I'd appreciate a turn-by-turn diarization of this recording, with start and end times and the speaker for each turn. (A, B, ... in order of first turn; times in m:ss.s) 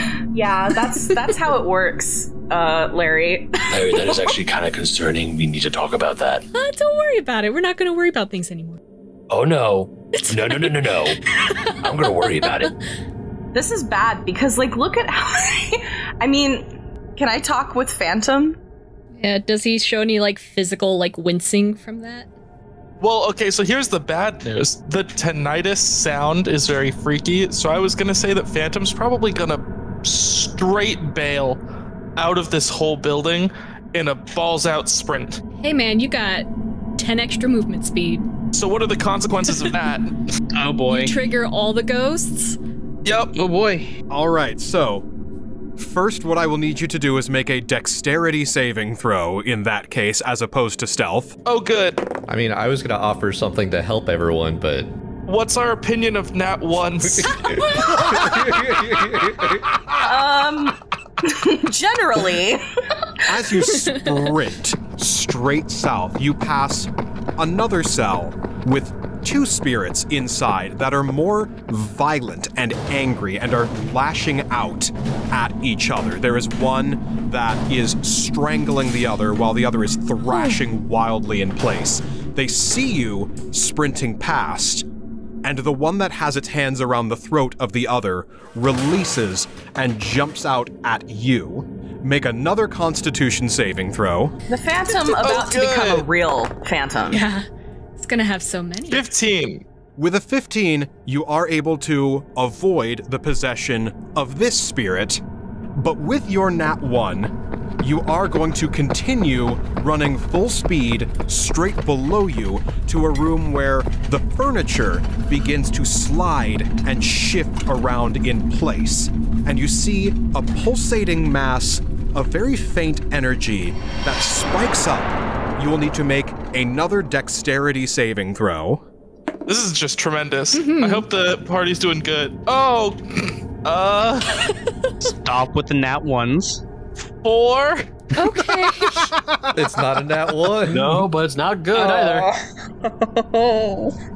0:00.3-0:04.2 A
0:03.7-0:06.4 B
0:06.5-0:08.8 C
0:09.3-0:11.2 B
0:10.1-0:11.8 C
0:11.8-0:12.7 B
0:12.4-0:12.7 C
0:13.5-0:18.6 A
0:19.2-0:22.3 C
0:23.0-0:31.6 D
0:32.2-0:35.4 D
0:35.6-0:38.2 C
0:38.5-0:40.2 D
0:40.5-0:41.2 E
0:40.9-0:42.6 C
0:43.0-0:43.3 D
0:43.3-0:43.9 E
0:44.1-0:45.0 F
0:45.8-0:51.3 F
0:51.4-0:52.0 D
0:52.3-0:54.9 G
0:55.3-0:57.5 D
0:57.0-1:00.3 G
1:00.0-1:03.0 A
1:03.3-1:24.8 F
1:03.7-1:04.3 C
1:20.2-1:20.6 C
1:25.4-1:34.3 F
1:34.5-1:37.2 A
1:34.9-1:36.1 D
1:37.1-1:37.4 C
1:38.0-1:39.0 C
1:38.9-1:39.6 D
1:40.0-1:45.2 F
1:45.8-2:08.8 F
2:09.5-2:14.5 D
2:10.5-2:11.1 C
2:15.1-2:16.6 E
2:17.2-2:17.9 D
2:18.2-2:19.1 C
2:18.9-2:19.7 F
2:19.5-2:21.0 G
2:20.7-2:22.3 B
2:21.7-2:23.9 E